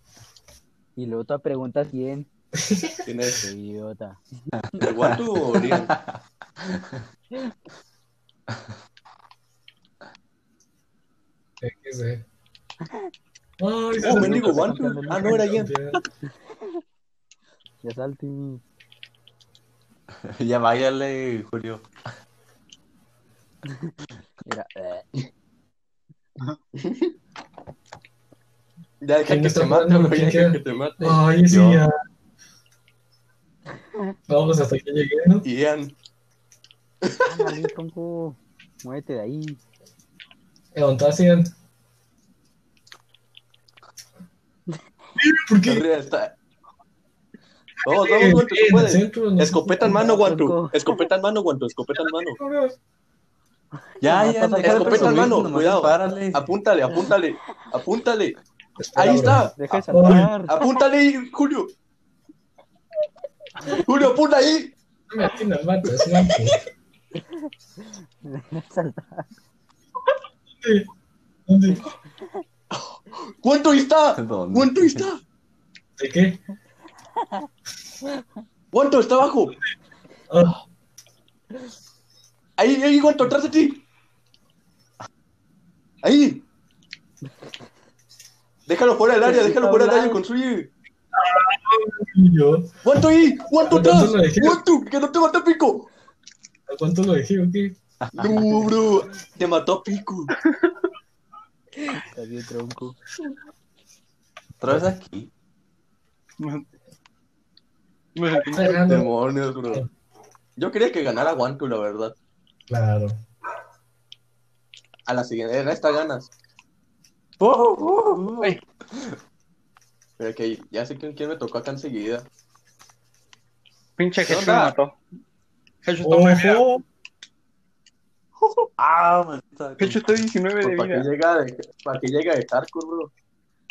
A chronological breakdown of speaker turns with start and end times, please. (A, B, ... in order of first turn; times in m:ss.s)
0:01.0-0:02.3 A
0:02.6-0:03.1 B
0:03.0-0:03.5 C
0:03.4-0:04.2 A
0:04.8-0:06.0 C
0:04.8-0:06.1 D
0:06.6-0:07.0 D
0:11.6-0:12.2 B
0:13.6-0:16.0 B
0:14.0-0:16.0 C
0:14.1-0:15.6 A
0:17.8-0:18.6 A
0:20.3-0:21.8 D
0:24.5-0:25.1 A
0:26.8-0:27.1 C
0:29.0-0:31.2 C
0:29.2-0:31.9 B
0:31.5-0:31.8 D
0:34.3-0:35.5 B
0:35.4-0:35.9 C
0:37.0-0:37.6 C
0:37.2-0:39.6 A
0:40.8-0:41.5 B
0:45.2-0:45.9 B
0:45.7-0:46.4 C
0:47.8-0:50.1 B
0:47.8-0:52.4 C
0:49.8-0:50.9 A
0:52.0-0:52.7 B
0:54.0-0:55.4 A
0:54.0-0:56.4 D
0:54.6-0:58.4 C
0:58.8-1:00.3 B
0:59.0-0:59.6 C
0:59.6-1:00.6 A
1:00.1-1:01.7 C
1:03.7-1:04.7 C
1:05.1-1:06.6 B
1:08.2-1:09.3 A
1:10.6-1:10.9 B
1:11.5-1:11.9 B
1:12.7-1:15.2 C
1:14.2-1:15.1 D
1:16.0-1:16.4 B
1:18.7-1:19.6 C
1:20.3-1:20.6 B
1:22.6-1:23.8 C
1:26.0-1:26.4 C
1:28.7-1:30.7 C
1:29.2-1:30.2 A
1:31.1-1:33.0 B
1:32.8-1:35.9 C
1:33.6-1:34.6 B
1:36.7-1:37.8 B
1:38.1-1:38.7 D
1:38.2-1:40.3 C
1:41.9-1:43.0 A
1:44.6-1:45.3 D
1:44.7-1:44.9 B
1:46.4-1:46.7 E
1:48.2-1:48.9 E
1:48.5-1:49.1 B
1:48.8-1:49.8 C
1:50.6-1:52.2 C
1:52.7-1:53.2 B
1:55.1-1:56.3 C
1:57.4-1:59.1 D
2:00.2-2:02.3 C
2:04.0-2:05.0 E
2:04.2-2:04.7 C
2:05.8-2:06.7 E
2:06.0-2:06.8 B
2:08.8-2:10.1 D
2:09.8-2:11.1 E
2:10.6-2:13.1 C